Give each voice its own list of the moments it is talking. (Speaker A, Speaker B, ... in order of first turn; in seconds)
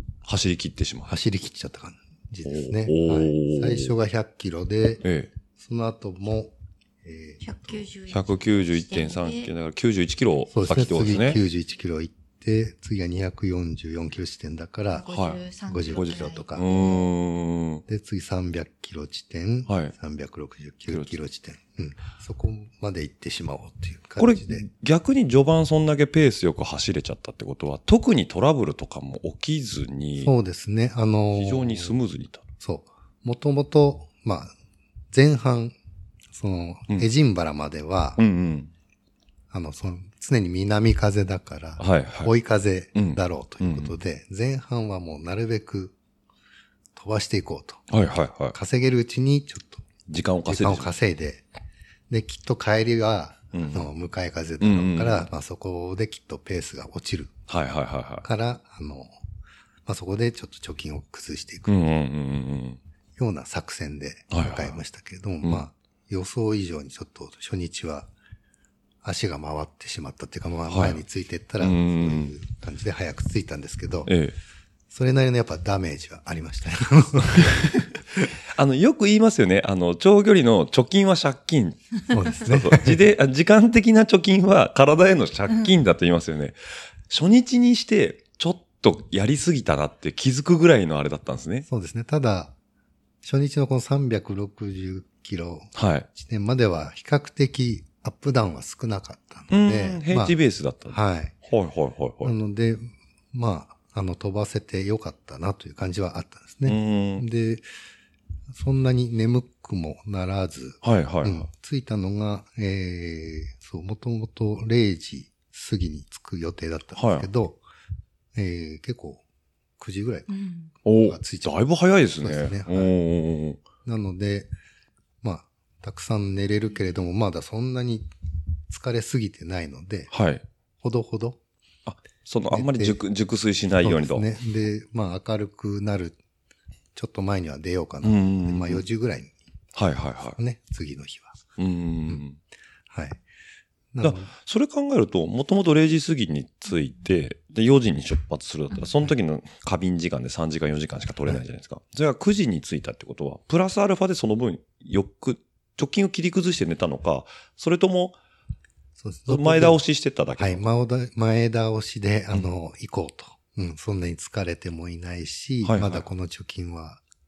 Speaker A: 0.2-1.1, 2.4-3.9, 5.0-5.3, 8.1-11.4, 15.1-15.4, 16.5-17.8, 19.7-19.9, 20.9-21.1, 24.2-30.3, 31.3-32.4, 38.2-38.7, 41.8-42.3, 42.9-44.0, 47.9-48.5, 50.1-50.9, 53.5-53.9, 54.6-55.2, 57.5-58.2, 61.7-62.8, 64.3-64.8, 70.7-71.0, 71.6-72.3, 74.0-74.3, 78.5-86.5, 87.1-91.7, 95.7-96.1, 99.5-102.3, 106.6-107.2, 110.8-111.5, 117.0-117.3, 120.8-123.6, 130.1-130.4, 131.8-134.2, 138.0-138.8, 139.7-140.4, 141.6-142.4, 144.0-158.2, 159.3-160.7, 165.6-166.0
Speaker B: 1.1-5.0, 5.5-7.8, 10.5-15.1, 15.7-16.7, 17.9-24.6, 30.2-32.0, 32.6-34.5, 35.1-35.8, 36.3-38.2, 39.5-45.9, 47.0-47.8, 48.5-49.8, 50.5-51.4, 52.1-57.3, 58.2-59.1, 59.9-61.8, 63.2-68.1, 69.0-74.1, 74.9-77.8, 82.1-83.0, 91.7-92.5, 93.2-100.4, 100.9-101.3, 102.2-107.6, 108.5-117.6, 118.3-119.2, 119.8-121.6, 122.2-122.9, 123.8-124.5, 125.2-128.1, 128.7-130.1, 130.8-131.4, 132.5-133.0, 133.8-136.2, 136.9-139.3, 140.3-141.4, 142.9-143.2, 143.9-144.3, 159.0-159.8, 160.4-167.0
Speaker C: 7.4-9.5, 14.9-17.0, 120.3-120.7